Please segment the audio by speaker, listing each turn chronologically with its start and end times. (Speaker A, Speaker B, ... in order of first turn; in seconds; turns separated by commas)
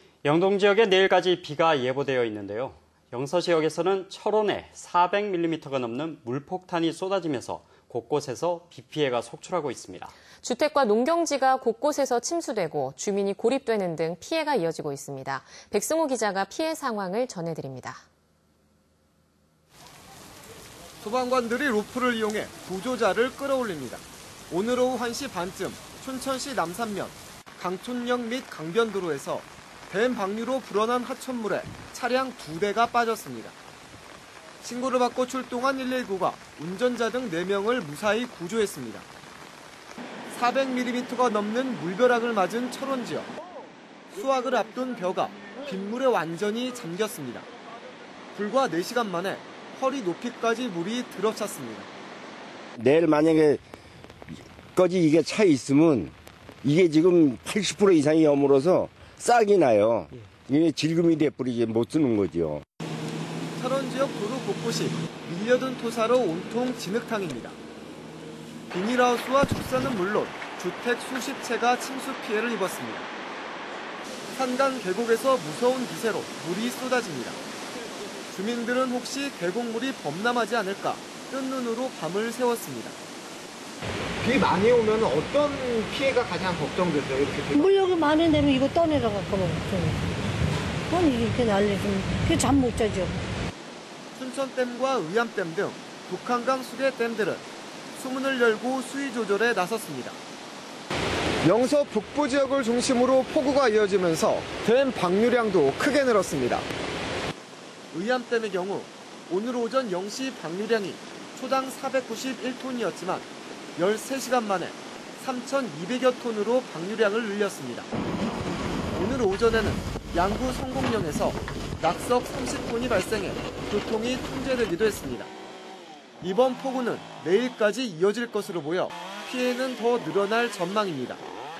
Speaker A: 0.2-10.1, Speaker B: 10.4-18.0, Speaker C: 21.0-33.5, Speaker C: 34.6-39.0, Speaker C: 40.3-43.3, Speaker C: 44.1-47.5, Speaker C: 48.3-51.9, Speaker D: 52.8-53.6, Speaker D: 54.7-62.6, Speaker C: 63.4-67.6, Speaker C: 68.7-73.1, Speaker C: 74.3-77.4, Speaker C: 78.3-83.0, Speaker E: 84.2-87.8, Speaker F: 87.5-90.0, Speaker F: 90.9-93.2, Speaker C: 94.2-97.4, Speaker C: 98.0-100.2, Speaker C: 101.4-106.7, Speaker C: 107.9-117.9, Speaker C: 118.9-125.3, Speaker C: 126.2-131.2